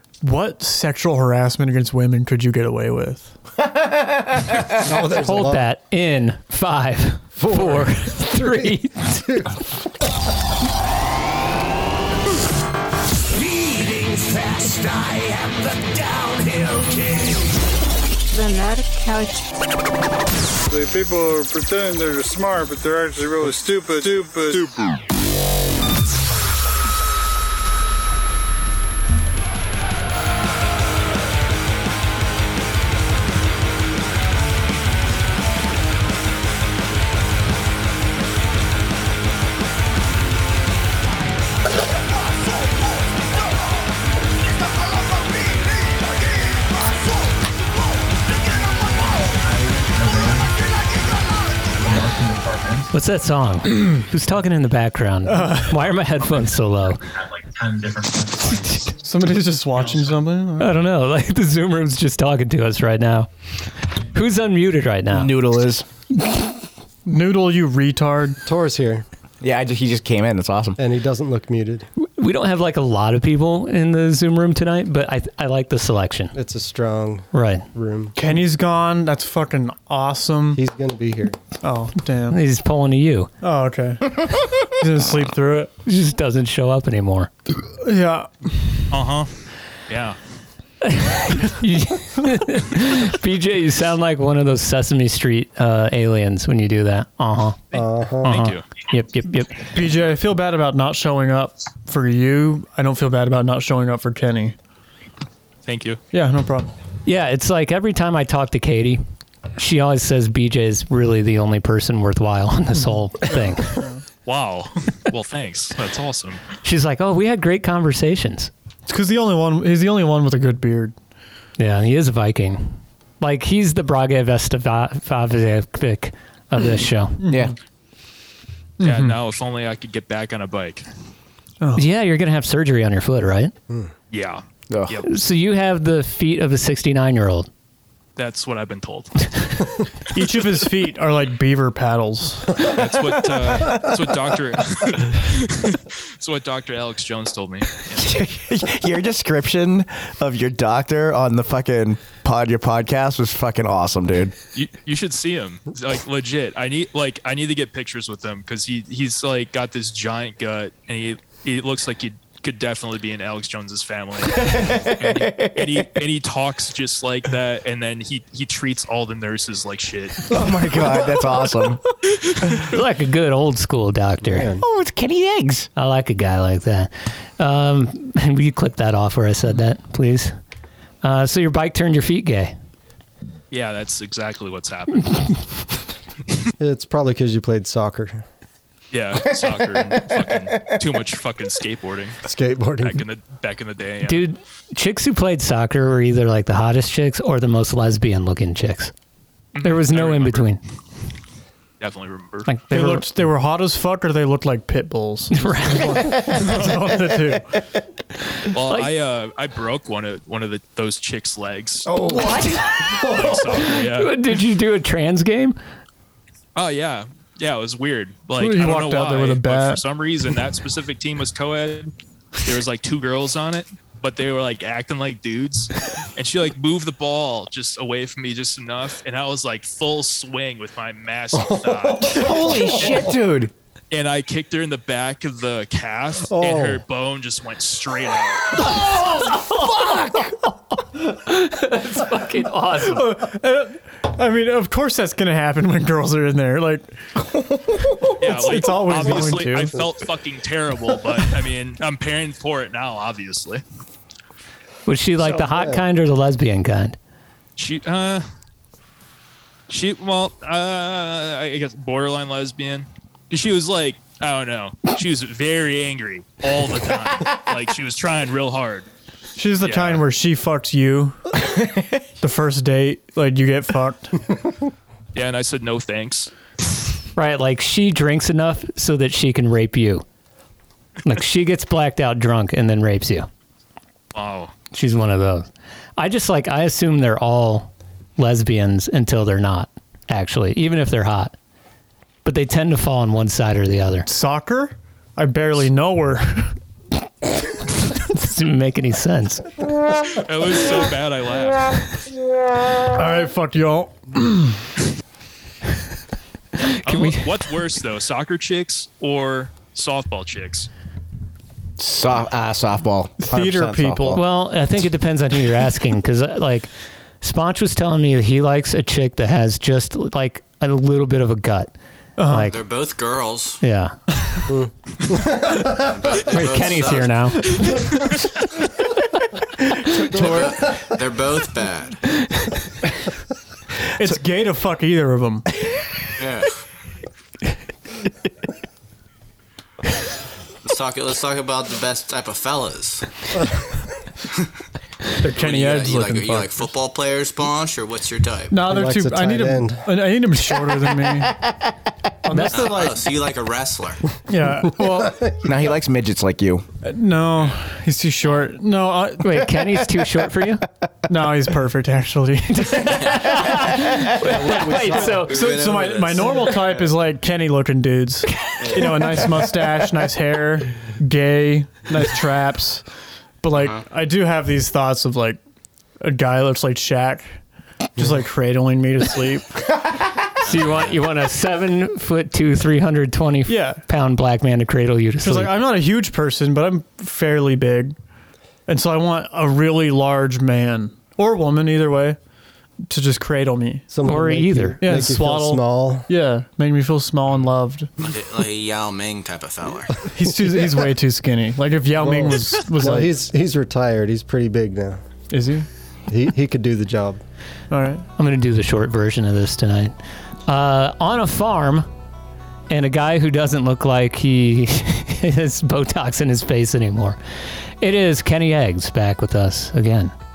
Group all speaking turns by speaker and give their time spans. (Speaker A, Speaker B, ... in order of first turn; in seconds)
Speaker A: 0.2-3.3, 55.3-55.8, 59.0-60.7, 67.1-68.4, 78.2-80.6, 81.6-82.4, 83.4-85.7, 87.8-88.8, 99.7-104.5, 106.1-106.7, 118.9-120.9, 127.2-127.5, 128.8-129.2, 131.6-131.9, 140.1-142.6, 202.7-207.4, 218.4-219.8, 242.9-247.1, 248.3-249.8, 269.4-271.2, 272.2-274.2, 294.1-296.5, 302.9-304.6, 313.2-314.2, 322.2-322.5, 330.1-330.6, 333.9-335.5, 345.2-346.5, 348.5-351.4, 352.2-353.1, 354.3-355.3, 356.8-359.4, 361.1-363.3, 364.6-372.9, 373.4-375.4, 376.0-377.4, 378.0-379.6, 383.5-383.8, 385.2-388.0, 388.7-392.2, 392.9-393.9, 394.8-397.9, 400.1-403.1, 405.3-405.7, 407.7-408.1
Speaker B: 4.8-5.7, 7.4-8.7, 68.5-69.0, 70.8-71.9, 76.3-78.2, 80.5-81.4, 97.7-98.3, 174.3-174.6, 186.6-188.2, 192.2-193.0, 231.6-233.1, 236.3-236.8, 255.2-255.8, 348.7-349.9, 364.2-365.2, 393.9-396.1, 402.0-405.0, 406.1-407.2
Speaker C: 5.1-9.3, 52.9-57.0, 60.6-63.3, 64.1-65.3, 72.2-76.3, 77.3-77.7, 82.3-83.3, 85.8-87.3, 90.8-97.6, 98.2-99.6, 107.1-109.0, 109.6-113.8, 116.6-118.5, 121.6-127.2, 131.8-133.5, 135.1-137.5, 172.5-174.5, 175.8-180.3, 181.0-182.6, 194.1-198.9, 199.6-200.6, 202.5-203.1, 205.3-205.9, 208.7-208.9, 213.8-215.6, 239.0-240.2, 241.0-243.2, 254.9-257.0, 277.1-280.0, 281.1-283.3, 284.7-291.3, 292.2-294.1, 298.1-299.5, 306.6-307.2, 314.1-316.7, 317.2-321.7, 322.3-322.6, 323.6-324.0, 326.3-327.7, 352.3-352.7, 359.2-360.7, 362.5-365.5, 380.4-385.5, 394.1-394.8, 408.2-409.9, 410.5-411.9, 412.7-417.2, 417.8-420.1
Speaker D: 13.3-17.5
Speaker E: 18.3-19.4, 49.2-50.5, 51.7-52.9, 56.2-59.0
Speaker F: 20.7-24.7
Speaker G: 65.1-65.9, 69.4-70.8, 127.3-127.5, 134.7-135.0, 148.0-154.3, 164.3-165.9, 170.3-171.8, 174.6-175.7, 232.1-233.5, 311.8-314.2, 355.4-356.6
Speaker H: 88.9-89.3, 89.9-90.2, 97.7-98.7, 105.7-106.0, 114.2-116.4, 128.8-130.8, 134.1-135.1, 138.2-139.3, 142.6-148.2, 154.6-170.3, 183.5-185.4, 188.9-192.2, 192.8-194.3, 199.6-200.5, 201.8-202.5, 206.5-206.8, 208.5-212.0, 212.9-214.2, 216.6-221.9, 222.4-233.0, 233.9-238.8, 248.2-253.6, 257.6-258.3, 259.7-268.9, 269.6-270.1, 275.1-276.3, 284.1-284.5, 300.2-302.0, 306.7-310.7
Speaker I: 322.5-323.6, 325.7-327.2, 330.1-332.0, 336.2-336.6, 340.6-343.1, 345.2-348.6, 352.5-354.1, 365.3-366.7, 368.6-369.2, 373.5-373.9, 380.5-381.0, 398.0-400.0